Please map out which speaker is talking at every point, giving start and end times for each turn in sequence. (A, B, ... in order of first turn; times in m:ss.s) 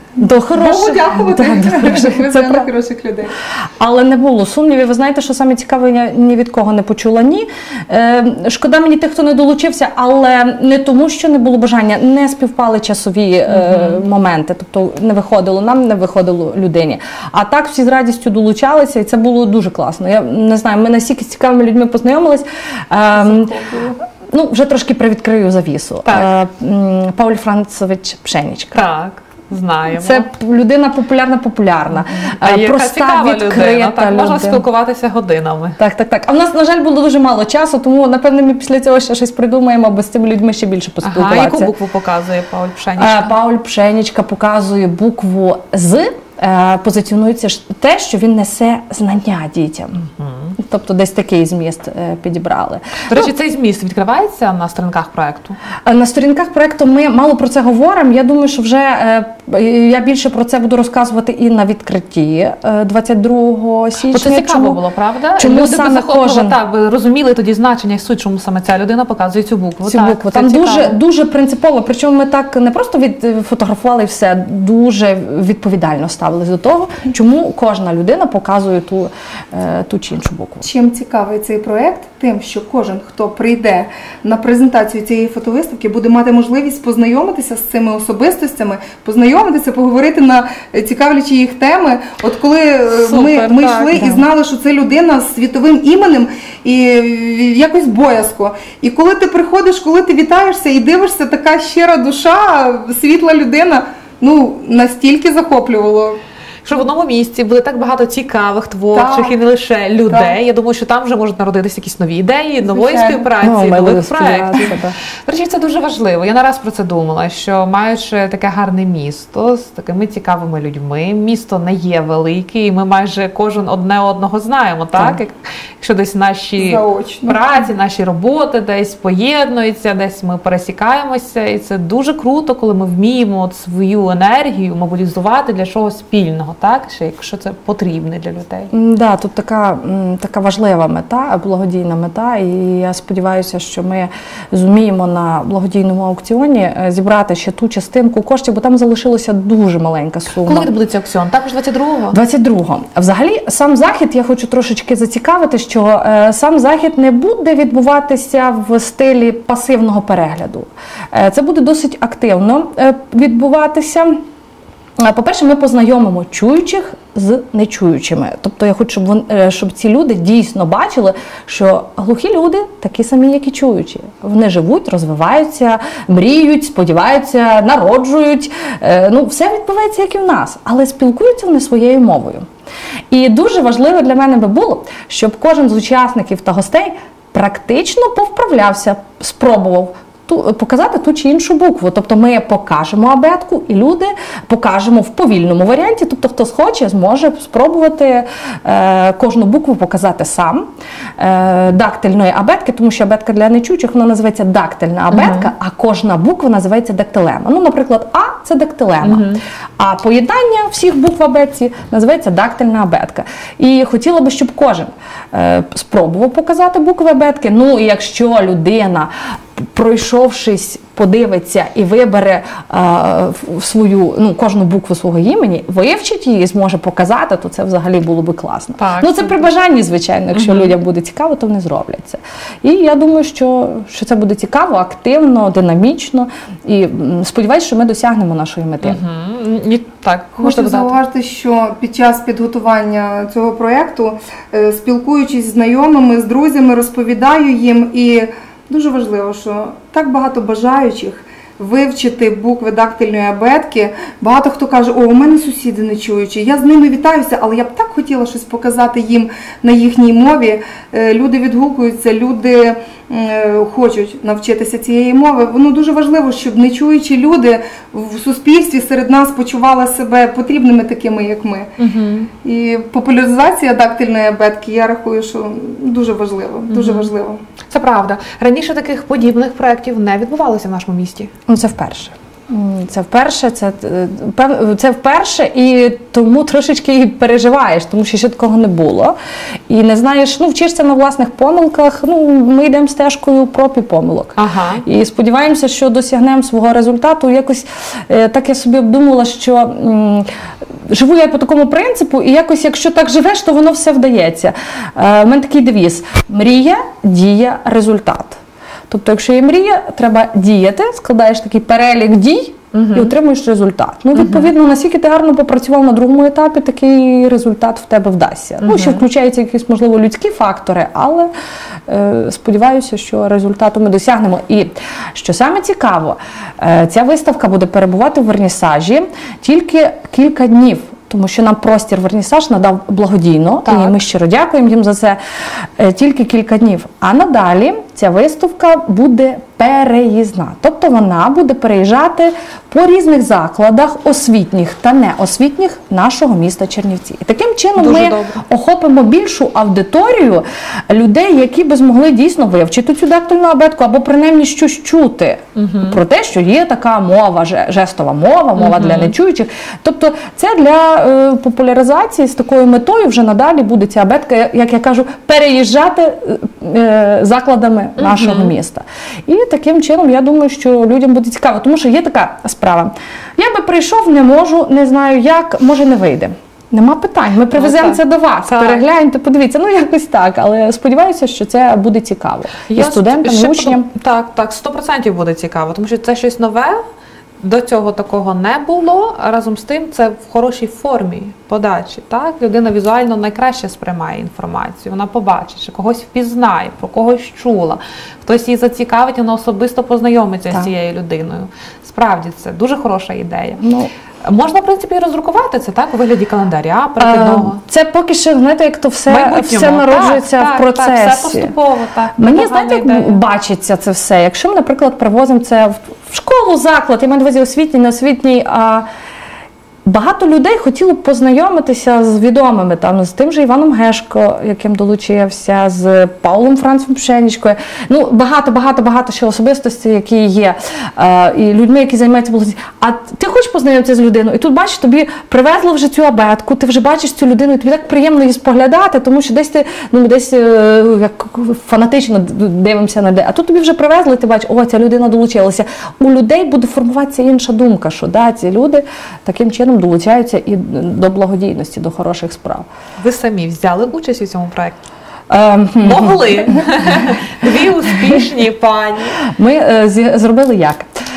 0:00.2-0:02.7 A
0:00.5-0:03.3 B
0:03.8-0:23.5 A
0:13.5-0:14.0 C
0:23.4-0:23.9 B
0:24.3-0:28.8 A
0:26.0-0:26.3 C
0:28.7-0:30.3 C
0:29.9-0:34.6 A
0:32.4-0:35.8 C
0:35.8-0:41.7 A
0:41.0-0:43.3 C
0:43.0-0:53.3 A
0:50.2-0:50.5 C
0:53.1-0:55.6 C
0:55.8-1:04.8 A
1:04.1-1:11.0 C
1:05.4-1:06.5 A
1:09.8-1:20.6 A
1:20.6-1:46.2 B
1:32.9-1:34.1 C
1:34.0-1:34.2 A
1:46.6-1:54.7 C
1:48.9-1:49.4 B
1:50.1-1:50.4 B
1:52.6-1:53.3 B
1:53.4-1:54.9 A
1:55.2-2:18.7 C
2:06.6-2:07.4 B
2:18.7-2:30.7 A
2:30.4-2:32.2 C
2:32.1-2:44.2 A
2:45.0-3:02.4 A
3:03.1-3:59.0 A
3:25.1-3:25.5 C
3:29.0-3:29.4 C
3:48.8-3:49.5 C
3:50.3-3:50.7 C
3:58.8-4:01.0 C
4:00.4-4:31.7 B
4:31.8-4:32.3 C
4:32.4-4:37.4 B
4:36.7-4:37.1 C
4:37.7-4:41.3 C
4:41.5-4:49.2 A
4:49.7-5:00.2 A
4:54.4-4:54.8 C
5:00.9-5:21.3 A
5:12.7-5:13.1 C
5:14.2-5:14.5 C
5:18.6-5:19.0 C
5:21.9-5:35.2 A
5:33.6-5:34.0 C
5:35.8-6:23.9 A
5:47.8-5:48.4 C
5:55.6-5:56.0 C
5:58.6-5:59.1 C
6:08.0-6:08.5 C
6:17.5-6:18.8 C
6:22.7-6:26.8 C
6:27.4-6:43.6 C
6:43.6-6:43.9 A
6:44.2-6:47.6 C
6:47.0-6:51.5 A
6:49.1-6:53.2 C
6:52.2-6:58.9 A
6:59.8-7:32.7 A
7:33.0-7:34.8 C
7:35.3-7:37.0 A
7:35.8-7:39.2 C
7:39.2-7:40.9 A